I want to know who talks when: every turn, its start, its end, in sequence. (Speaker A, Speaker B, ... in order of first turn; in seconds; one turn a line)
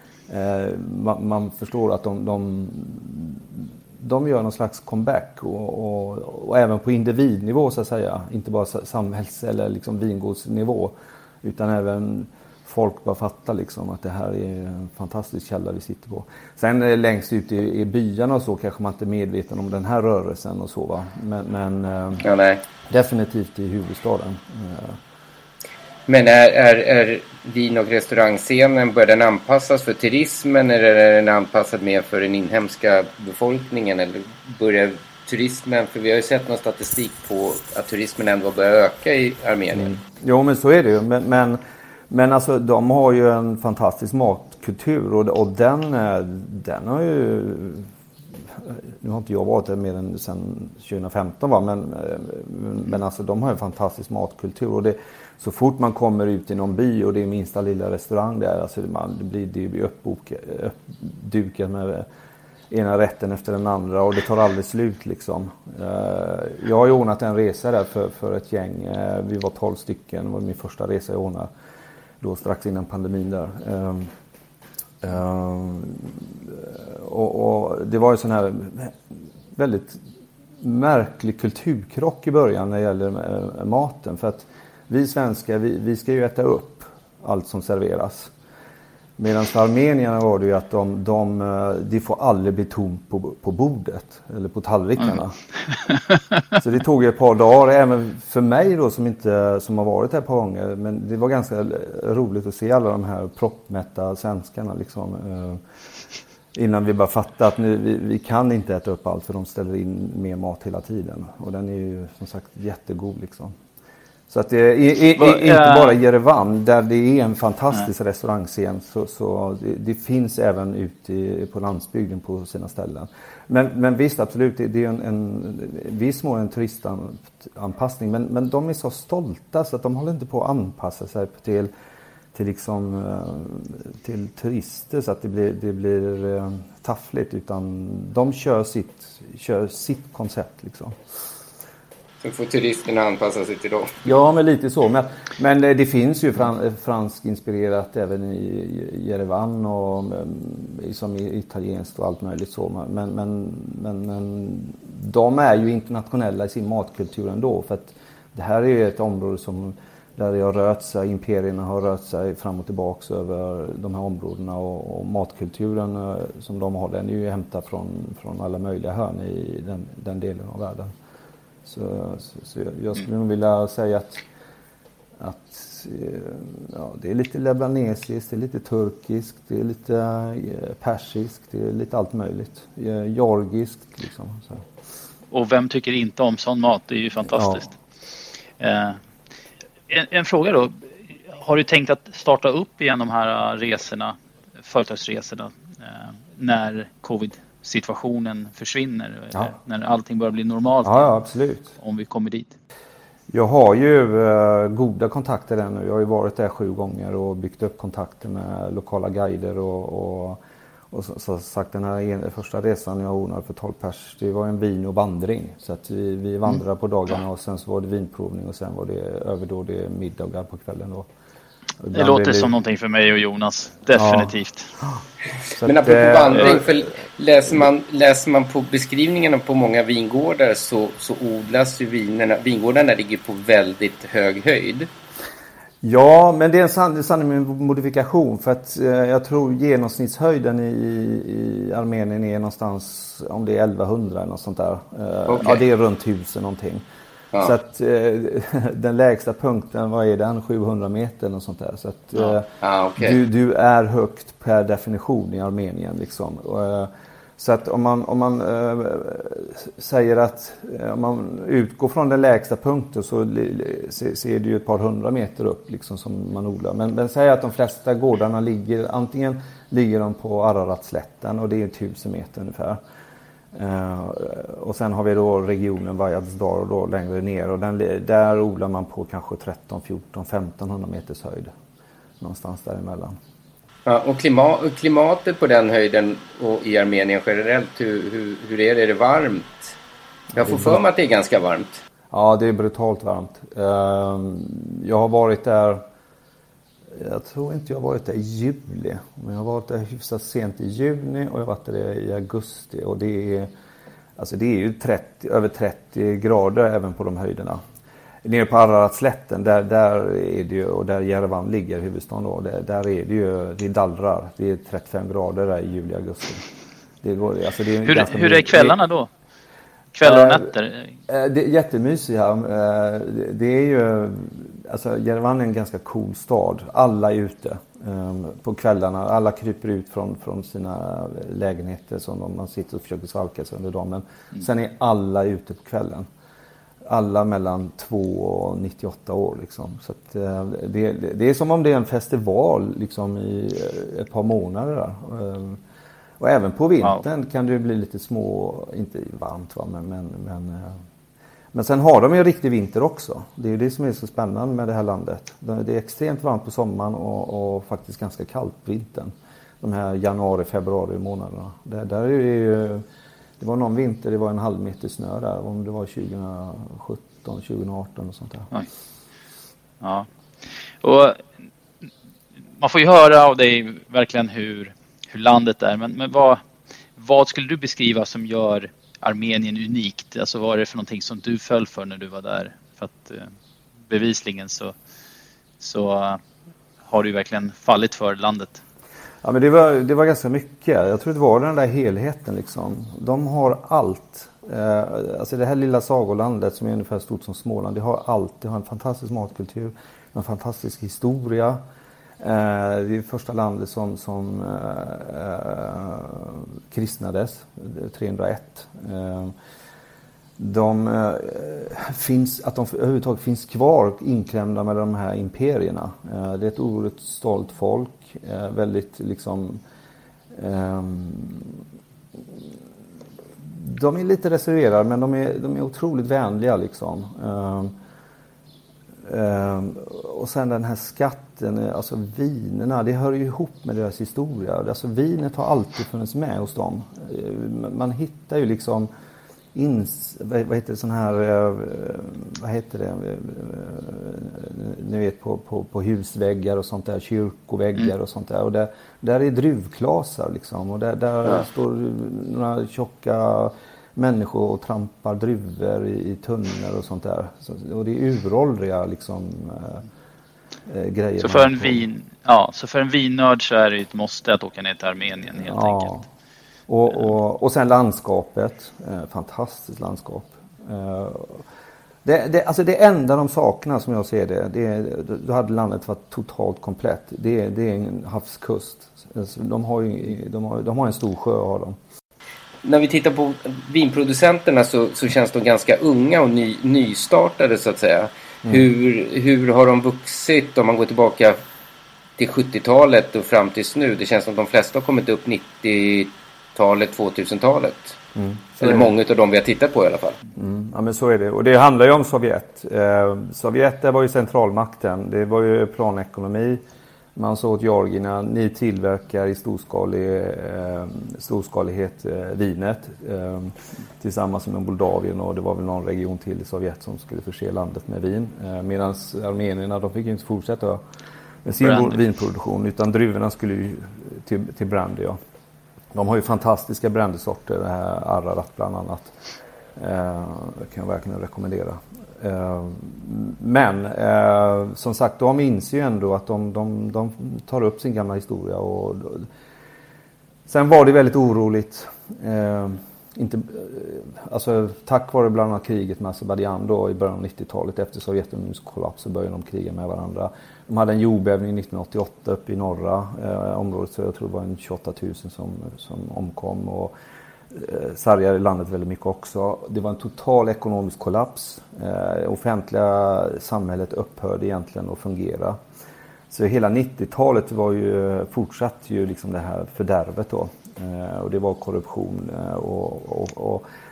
Speaker A: 0.3-22.3
Speaker B: 22.2-22.6
Speaker A: 22.9-25.0
Speaker B: 26.1-39.9
Speaker A: 39.7-47.9
Speaker A: 48.5-62.1
Speaker A: 62.7-71.5
Speaker A: 72.2-74.1
Speaker A: 75.0-79.0
Speaker A: 79.5-80.0
Speaker A: 80.6-88.3
Speaker A: 89.2-95.4
Speaker C: 95.9-96.4
Speaker A: 96.6-105.6
Speaker A: 106.5-113.5
Speaker A: 114.3-131.7
Speaker C: 115.2-116.0
Speaker A: 132.3-141.0
Speaker B: 142.2-144.0
Speaker A: 144.1-170.9
Speaker A: 171.7-174.2
Speaker A: 175.2-184.7
Speaker C: 185.3-187.7
Speaker A: 187.3-187.7
Speaker C: 188.6-189.0
Speaker C: 189.9-190.8
Speaker C: 191.3-201.1
Speaker A: 200.8-201.7
Speaker C: 201.8-202.6
Speaker A: 203.3-210.4
Speaker A: 210.9-221.1
Speaker A: 221.8-222.5
Speaker C: 221.9-224.7
Speaker A: 223.9-225.0
Speaker A: 225.6-226.8
Speaker B: 225.6-234.9
Speaker A: 235.8-246.8
Speaker B: 245.3-245.6
Speaker A: 247.4-272.8
Speaker B: 252.2-253.2
Speaker A: 273.5-281.5
Speaker A: 282.2-283.2
Speaker B: 283.9-289.8
Speaker B: 290.4-291.8
Speaker A: 290.4-290.8
Speaker A: 292.1-295.8
Speaker A: 296.9-303.5
Speaker A: 304.2-307.6
Speaker A: 308.2-316.4
Speaker A: 317.0-318.8
Speaker C: 317.9-319.1
Speaker C: 319.9-320.9
Speaker A: 320.0-320.5
Speaker A: 321.1-336.1
Speaker A: 336.9-345.6
Speaker A: 346.2-350.8
Speaker A: 351.5-362.8
Speaker A: 363.4-368.5
Speaker C: 369.8-370.1
Speaker C: 370.8-371.2
Speaker C: 372.6-376.4
Speaker C: 377.0-383.3
Speaker C: 383.9-384.7
Speaker C: 385.6-386.2
Speaker C: 386.9-388.6
Speaker A: 389.2-401.6
Speaker A: 402.2-409.3
Speaker A: 410.4-419.6
Speaker A: 420.3-421.6
Speaker A: 423.4-427.7
Speaker A: 429.1-438.9
Speaker A: 439.5-459.9
Speaker A: 460.7-461.8
Speaker C: 461.2-465.9
Speaker A: 465.4-466.1
Speaker A: 466.7-471.4
Speaker A: 472.0-481.8
Speaker B: 482.6-491.4
Speaker B: 492.2-498.0
Speaker A: 498.2-498.9
Speaker B: 498.6-500.2
Speaker A: 500.4-506.6
Speaker A: 507.2-520.8
Speaker A: 521.5-525.2
Speaker C: 521.6-522.0
Speaker A: 525.9-529.1
Speaker A: 529.8-539.3
Speaker A: 540.5-556.9
Speaker A: 557.5-565.6
Speaker A: 566.3-573.6